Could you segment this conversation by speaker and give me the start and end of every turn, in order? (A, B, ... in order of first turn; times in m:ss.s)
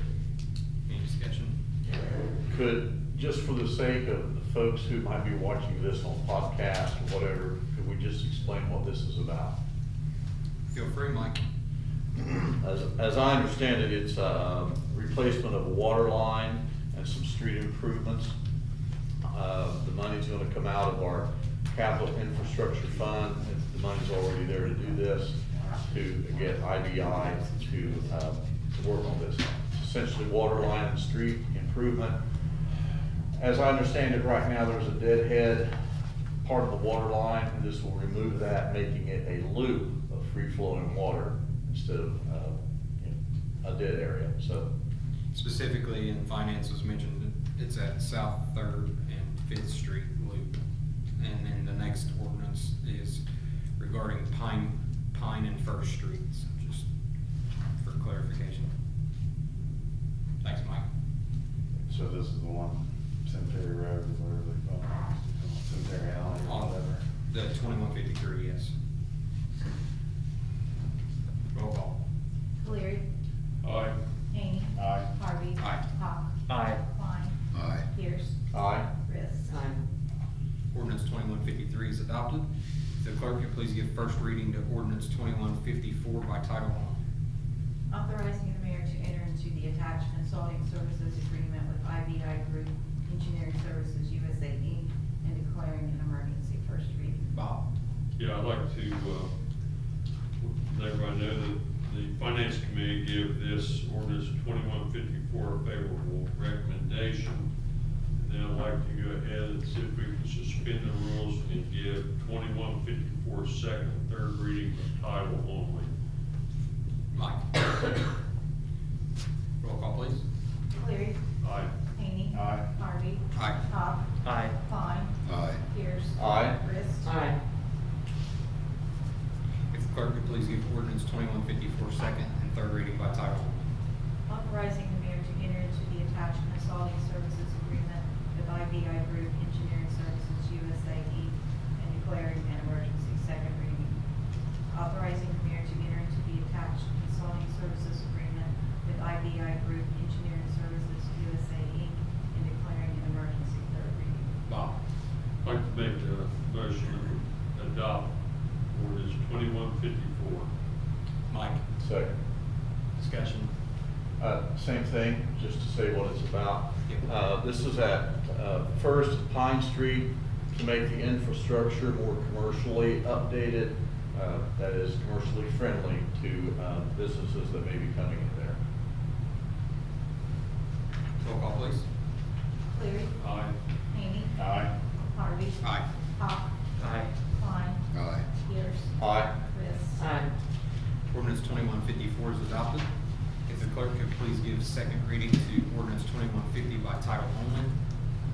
0:00.8-0:01.5 A
0:02.5-0:09.6 B
0:10.7-0:11.4 A
0:12.3-0:18.3 B
0:19.2-0:32.2 B
0:25.5-0:25.8 C
0:33.4-0:35.8 B
0:36.4-0:44.7 B
0:45.3-0:50.5 A
0:51.2-0:53.2 A
0:53.8-0:56.8 A
0:57.8-0:58.7 A
1:00.4-1:00.8 A
1:01.8-1:07.0 C
1:06.4-1:08.7 A
1:11.5-1:11.9 A
1:12.6-1:13.0 D
1:13.6-1:14.0 E
1:14.3-1:18.4 D
1:14.8-1:15.1 C
1:16.5-1:16.8 F
1:18.5-1:18.9 B
1:18.9-1:19.6 D
1:19.5-1:19.8 F
1:20.7-1:22.4 A
1:23.0-1:27.0 A
1:27.9-1:37.3 D
1:37.3-1:37.6 A
1:38.2-1:39.3 E
1:40.4-1:47.5 E
1:48.2-1:55.9 E
1:57.1-1:57.6 A
1:59.6-2:00.2 A
2:00.7-2:01.2 D
2:01.4-2:01.7 E
2:01.9-2:07.1 D
2:02.3-2:02.7 C
2:03.3-2:03.6 A
2:04.2-2:04.5 F
2:06.2-2:06.6 B
2:07.0-2:07.4 F
2:09.7-2:13.6 A
2:14.3-2:24.0 D
2:24.7-2:34.3 D
2:34.5-2:34.7 A
2:35.4-2:38.1 E
2:38.7-2:40.5 E
2:41.3-2:41.6 A
2:41.8-2:42.1 B
2:43.0-2:43.5 A
2:44.2-2:58.6 B
3:01.2-3:01.8 A
3:02.7-3:03.1 D
3:03.2-3:03.5 E
3:03.9-3:04.4 D
3:04.4-3:04.7 C
3:05.0-3:06.5 D
3:06.8-3:07.1 F
3:07.2-3:10.1 D
3:09.0-3:09.3 B
3:10.0-3:10.3 F
3:11.1-3:12.9 A
3:13.4-3:17.7 A